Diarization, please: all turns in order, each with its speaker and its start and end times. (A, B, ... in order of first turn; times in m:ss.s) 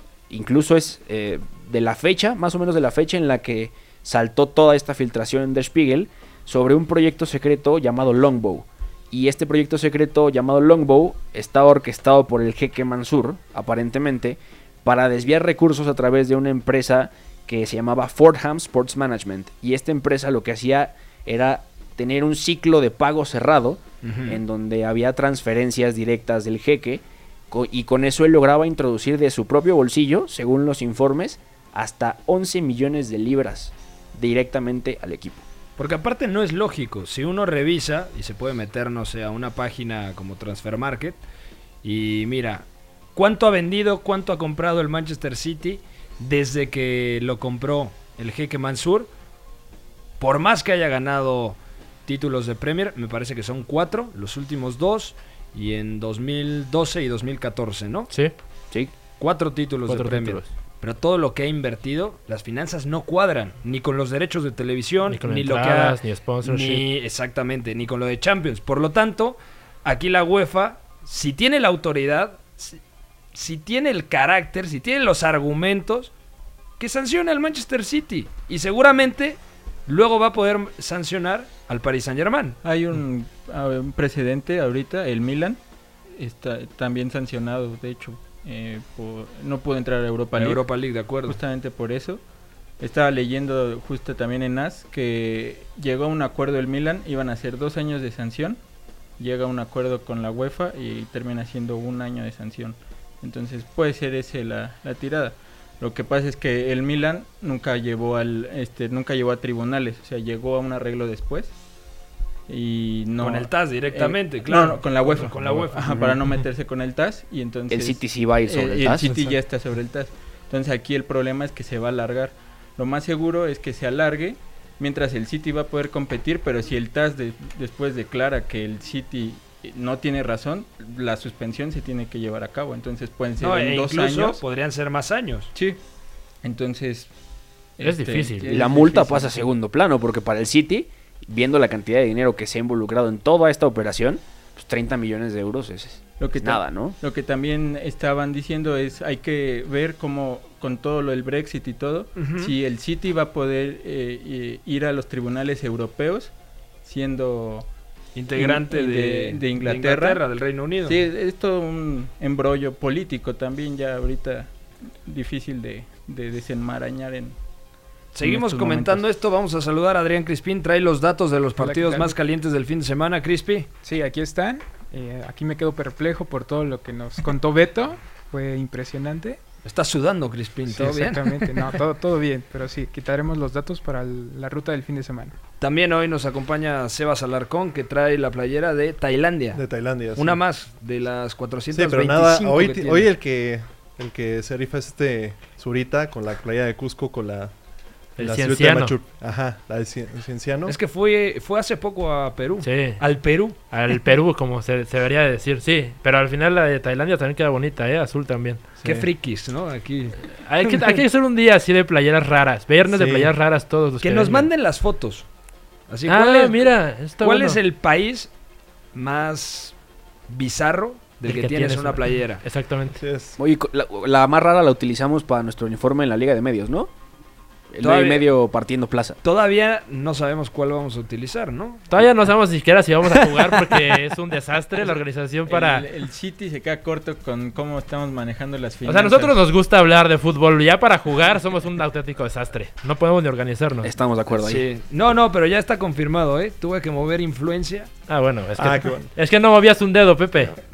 0:00.3-0:35.4 A
0:24.0-0:24.4 B
0:35.8-0:41.2 B
0:41.8-0:49.1 B
0:50.2-0:58.1 B
0:59.2-1:12.8 B
0:59.9-1:00.5 C
1:05.1-1:06.8 C
1:13.3-1:16.1 B
1:16.8-1:22.6 B
1:22.6-1:25.6 D
1:26.2-1:32.2 D
1:30.4-1:31.4 B
1:32.8-1:38.6 D
1:39.2-1:51.5 D
1:52.5-2:14.4 D
1:53.2-1:56.0 B
1:57.7-1:59.2 A
2:13.4-2:15.5 B
2:16.4-2:17.1 D
2:17.8-2:19.5 D
2:17.8-2:18.5 C
2:18.4-2:27.0 A
2:26.2-2:36.3 D
2:32.2-2:32.5 B
2:36.8-2:37.7 D
2:38.1-2:41.0 B
2:38.4-2:40.2 D
2:40.8-2:44.5 D
2:45.0-2:47.4 D
2:48.1-2:53.7 B
2:48.2-2:48.9 E
2:51.6-2:52.2 E
2:53.8-2:59.4 E
2:59.6-3:01.6 B
3:00.7-3:05.3 E
3:05.6-3:09.6 B
3:09.5-3:10.4 F
3:10.1-3:13.1 B
3:11.7-3:17.5 F
3:18.2-3:18.9 C
3:18.2-3:20.7 F
3:20.7-3:23.6 B
3:22.6-3:23.0 C
3:23.7-3:28.7 C
3:28.8-3:31.0 B
3:30.4-3:34.5 C
3:32.9-3:33.3 F
3:34.0-3:35.2 B
3:35.9-3:38.3 B
3:36.1-3:37.6 C
3:38.9-3:39.7 B
3:40.3-3:42.4 B
3:41.2-3:43.0 C
3:43.0-3:43.4 F
3:43.4-3:46.9 A
3:47.7-3:49.2 A
3:47.8-3:48.3 B
3:49.2-3:51.9 B
3:51.9-3:55.9 C
3:55.5-3:59.3 D
3:58.9-4:03.9 C
4:03.8-4:04.6 A
4:04.3-4:07.9 B
4:08.1-4:10.6 C
4:08.6-4:09.1 F